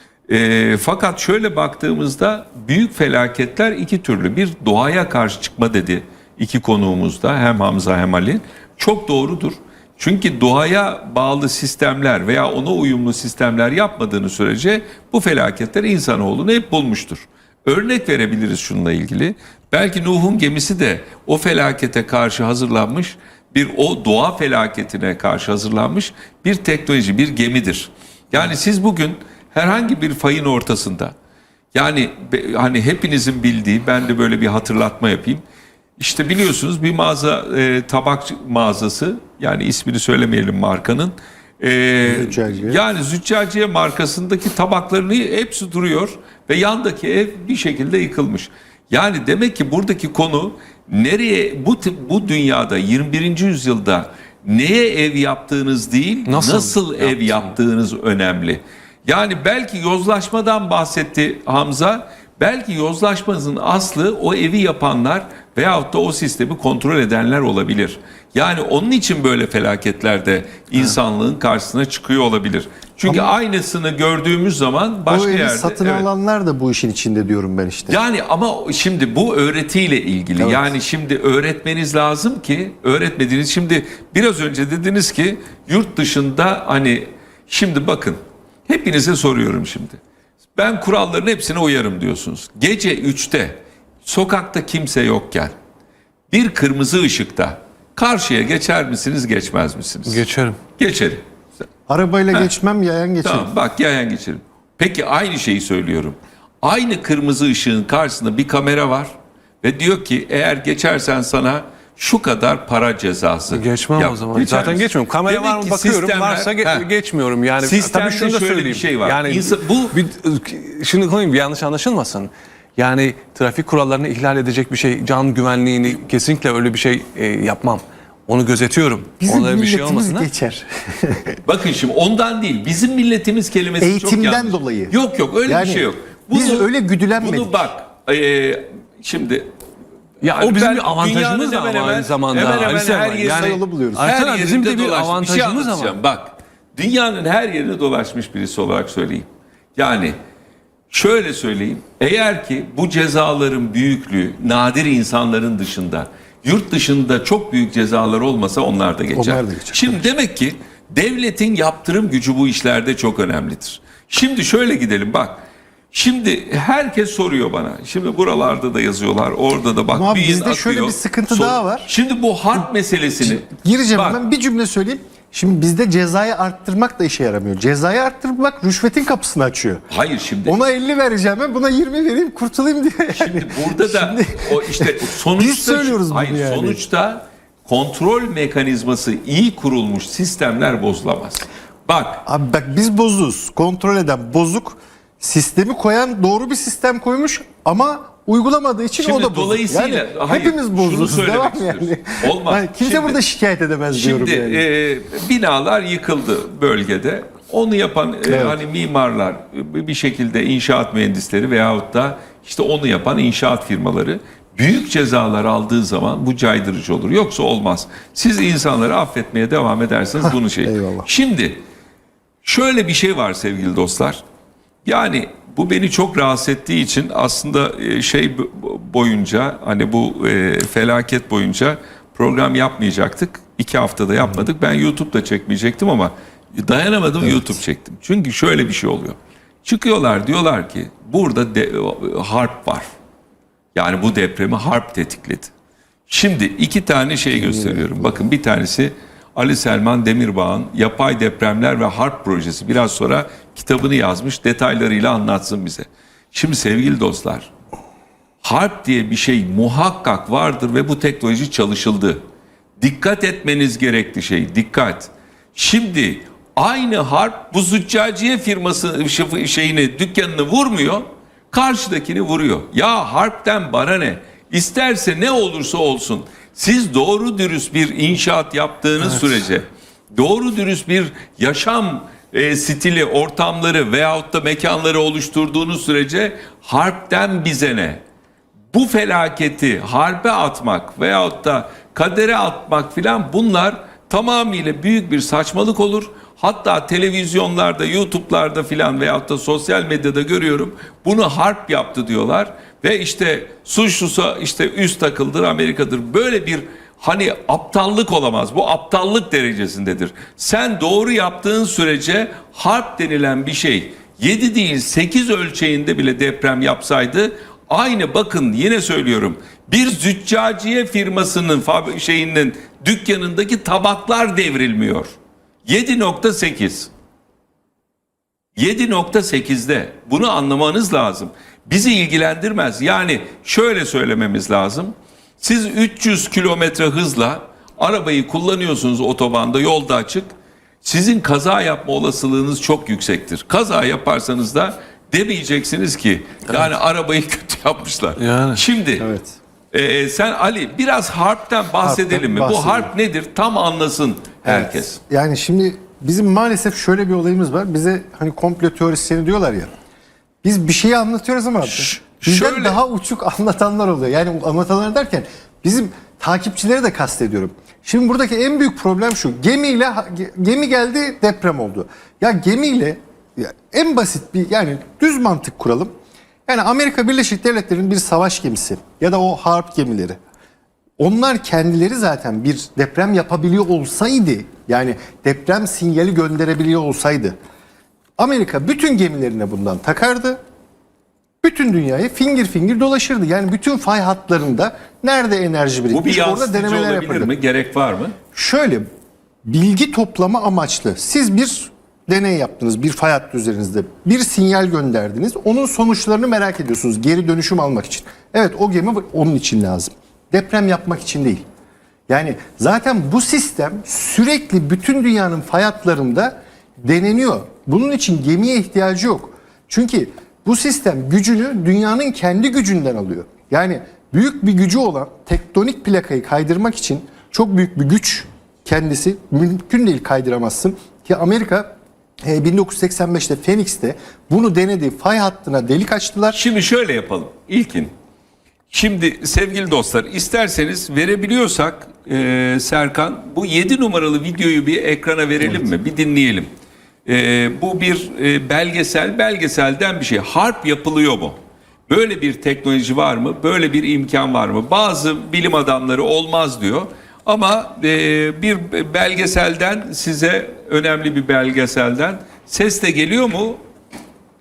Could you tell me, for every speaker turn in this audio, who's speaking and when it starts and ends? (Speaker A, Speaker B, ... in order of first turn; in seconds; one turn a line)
Speaker A: 0.3-31.1
Speaker A: 31.7-35.4
Speaker A: 36.0-76.1
Speaker B: 42.0-42.8
Speaker C: 56.3-57.5
Speaker B: 73.0-73.3
Speaker B: 75.1-78.0
Speaker A: 77.9-90.0
Speaker B: 80.4-80.7
Speaker A: 90.5-95.5
Speaker A: 96.3-100.2
Speaker C: 100.1-100.6
Speaker A: 100.8-101.2
Speaker B: 101.9-103.5
Speaker A: 103.2-109.1
Speaker A: 109.6-116.9
Speaker C: 113.5-130.3
Speaker A: 117.6-120.0
Speaker B: 129.2-131.4
Speaker A: 131.4-139.5
Speaker B: 133.8-137.7
Speaker C: 140.2-146.0
Speaker A: 140.2-150.2
Speaker B: 143.3-144.1
Speaker A: 150.9-174.2
Speaker B: 159.1-160.1
Speaker B: 169.9-171.9
Speaker B: 173.3-179.8
Speaker A: 179.9-180.6
Speaker B: 180.4-186.8
Speaker A: 183.1-192.2
Speaker B: 192.3-204.7
Speaker A: 199.0-203.2
Speaker A: 203.9-221.6
Speaker B: 208.3-208.6
Speaker B: 220.2-221.1
Speaker A: 222.4-224.2
Speaker A: 224.8-242.9
Speaker A: 243.8-245.5
Speaker A: 246.1-257.5
Speaker B: 247.5-247.8
Speaker A: 258.4-262.2
Speaker A: 262.8-288.0
Speaker A: 288.7-326.9
Speaker A: 328.6-340.3
Speaker A: 340.8-349.1
Speaker C: 348.2-348.6
Speaker B: 349.0-349.4
Speaker A: 349.7-355.0
Speaker B: 351.8-352.9
Speaker B: 354.4-359.7
Speaker B: 360.4-375.9
Speaker A: 361.6-362.8
Speaker B: 376.5-380.2
Speaker B: 381.0-387.4
Speaker B: 388.2-390.4
Speaker B: 391.4-397.3
Speaker A: 395.9-398.2
Speaker B: 398.3-398.9
Speaker B: 399.4-411.4
Speaker B: 412.1-431.7
Speaker B: 432.2-436.4
Speaker A: 436.3-437.9
Speaker A: 438.7-446.5
Speaker A: 447.1-451.4
Speaker A: 451.9-463.6